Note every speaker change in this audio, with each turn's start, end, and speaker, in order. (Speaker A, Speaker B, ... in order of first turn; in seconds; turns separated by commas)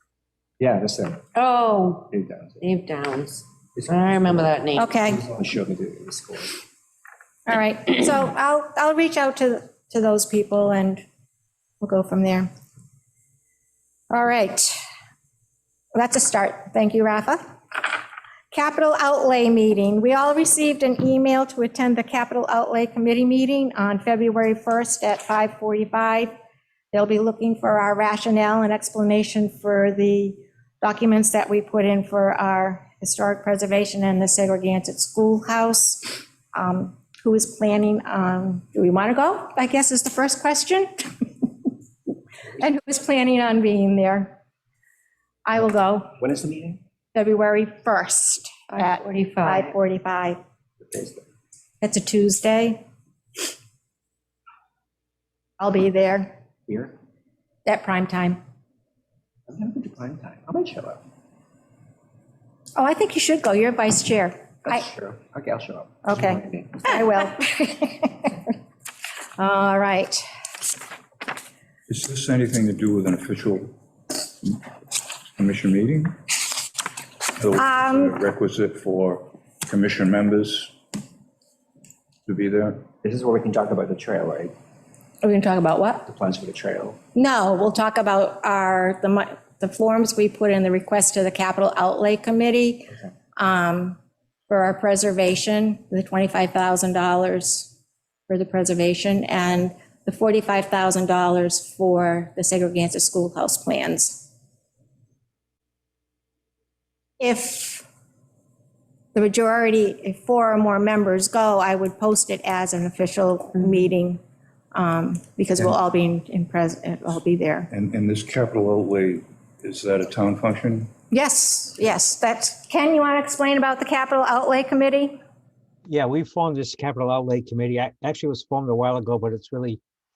Speaker A: 0.6-1.4, Speaker B: 1.3-4.9, Speaker A: 2.1-2.6, Speaker A: 3.7-6.6, Speaker C: 4.7-5.2, Speaker C: 7.5-11.0, Speaker C: 11.8-12.5, Speaker C: 14.1-14.8, Speaker C: 15.9-17.4, Speaker C: 18.5-26.3, Speaker C: 26.9-41.1, Speaker C: 42.6-44.4, Speaker C: 45.5-46.1, Speaker A: 46.2-46.8, Speaker C: 47.1-50.4, Speaker B: 48.8-49.7, Speaker A: 50.8-51.2, Speaker C: 51.8-52.8, Speaker C: 55.6-56.3, Speaker A: 56.7-56.9, Speaker C: 57.6-58.4, Speaker A: 59.5-61.0, Speaker C: 62.8-64.9, Speaker A: 64.6-67.0, Speaker C: 66.0-68.5, Speaker C: 69.4-70.2, Speaker D: 71.9-73.7, Speaker D: 75.4-76.2, Speaker D: 77.4-80.7, Speaker C: 77.5-78.2, Speaker D: 82.2-82.8, Speaker A: 83.0-84.5, Speaker C: 85.2-86.0, Speaker A: 86.0-87.0, Speaker C: 87.1-97.7, Speaker C: 98.3-104.3, Speaker C: 107.2-107.8, Speaker C: 109.1-114.2, Speaker C: 114.7-117.7, Speaker D: 117.7-120.9, Speaker C: 121.1-125.2, Speaker E: 125.9-129.8